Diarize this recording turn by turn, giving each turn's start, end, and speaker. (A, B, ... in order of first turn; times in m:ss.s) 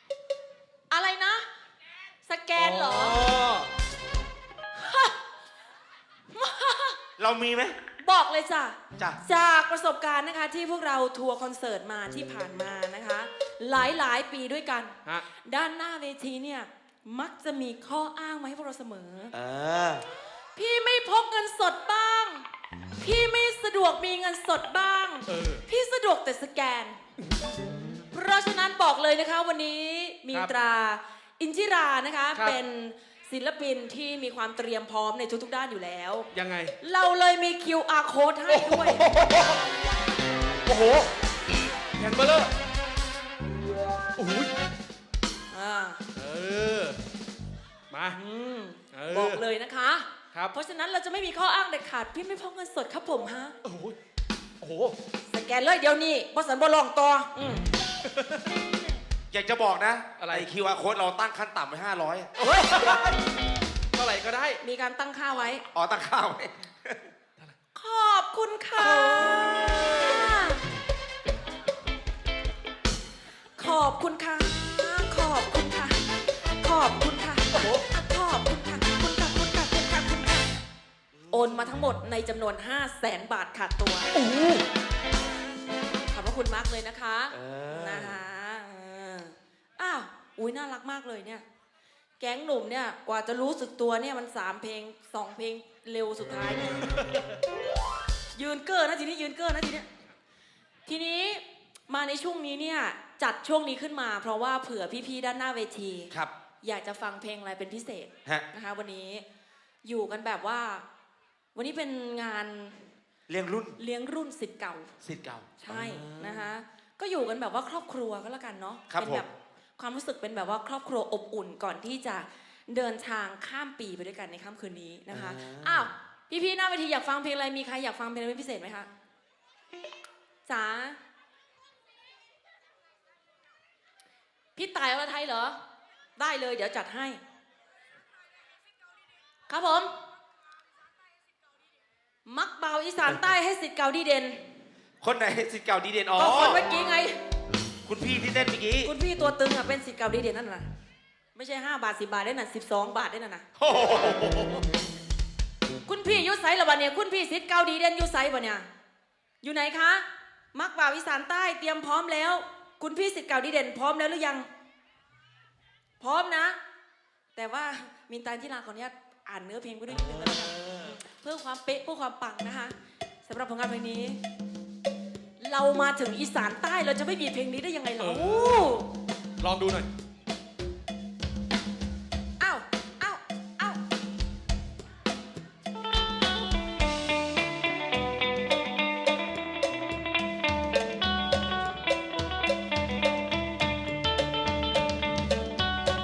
0:00.9-0:01.5 A
0:02.3-0:03.3 A
0:02.6-0:03.7 B
0:04.7-0:05.2 A
0:06.3-0:07.0 A
0:07.2-0:07.8 C
0:08.0-0:19.3 A
0:19.3-0:20.0 C
0:20.6-0:22.4 A
0:23.0-0:27.0 A
0:25.3-0:25.6 B
0:28.1-0:36.3 A
0:36.3-0:36.8 B
0:36.8-0:39.0 A
0:38.5-0:39.6 B
0:40.6-0:41.1 B
0:42.0-0:42.5 B
0:44.2-0:44.5 B
0:45.5-0:46.0 A
0:46.2-0:47.0 B
0:47.9-0:48.2 B
0:48.1-0:53.6 A
0:48.9-0:49.4 B
0:53.6-0:54.0 B
0:54.6-0:55.0 B
0:55.3-0:57.7 A
0:58.0-0:58.4 B
0:59.3-1:02.3 C
1:00.2-1:00.5 B
1:02.4-1:03.2 B
1:03.9-1:04.6 B
1:04.6-1:05.6 A
1:05.7-1:07.1 C
1:07.8-1:10.6 A
1:09.0-1:10.2 B
1:13.6-1:16.1 A
1:16.6-1:20.6 A
1:17.5-1:17.8 B
1:21.3-1:24.1 A
1:24.1-1:24.6 B
1:26.1-1:31.4 A
1:27.3-1:28.2 C
1:32.2-1:37.0 A
1:38.4-1:39.9 A
1:40.9-1:46.1 A
1:46.6-1:49.2 A
1:49.8-1:50.8 A
1:51.6-1:52.9 A
1:53.3-1:53.8 C
1:53.8-1:55.0 A
1:55.0-1:56.5 C
1:55.6-2:08.9 A
1:58.9-1:59.2 C
2:05.1-2:05.9 C
2:10.5-2:11.0 A
2:14.6-2:15.6 A
2:16.2-2:17.2 A
2:19.5-2:19.9 A
2:22.3-2:24.4 A
2:25.0-2:26.6 C
2:26.2-2:27.2 A
2:27.8-2:28.9 C
2:28.8-2:30.7 A
2:31.4-2:33.5 A
2:33.6-2:34.6 C
2:35.9-2:38.7 A
2:39.4-2:44.5 A
2:46.0-2:46.6 A
2:47.4-2:54.2 A
2:50.0-2:50.9 C
2:55.4-2:58.9 A
2:58.0-2:58.6 B
2:59.4-2:59.9 B
3:02.4-3:03.8 A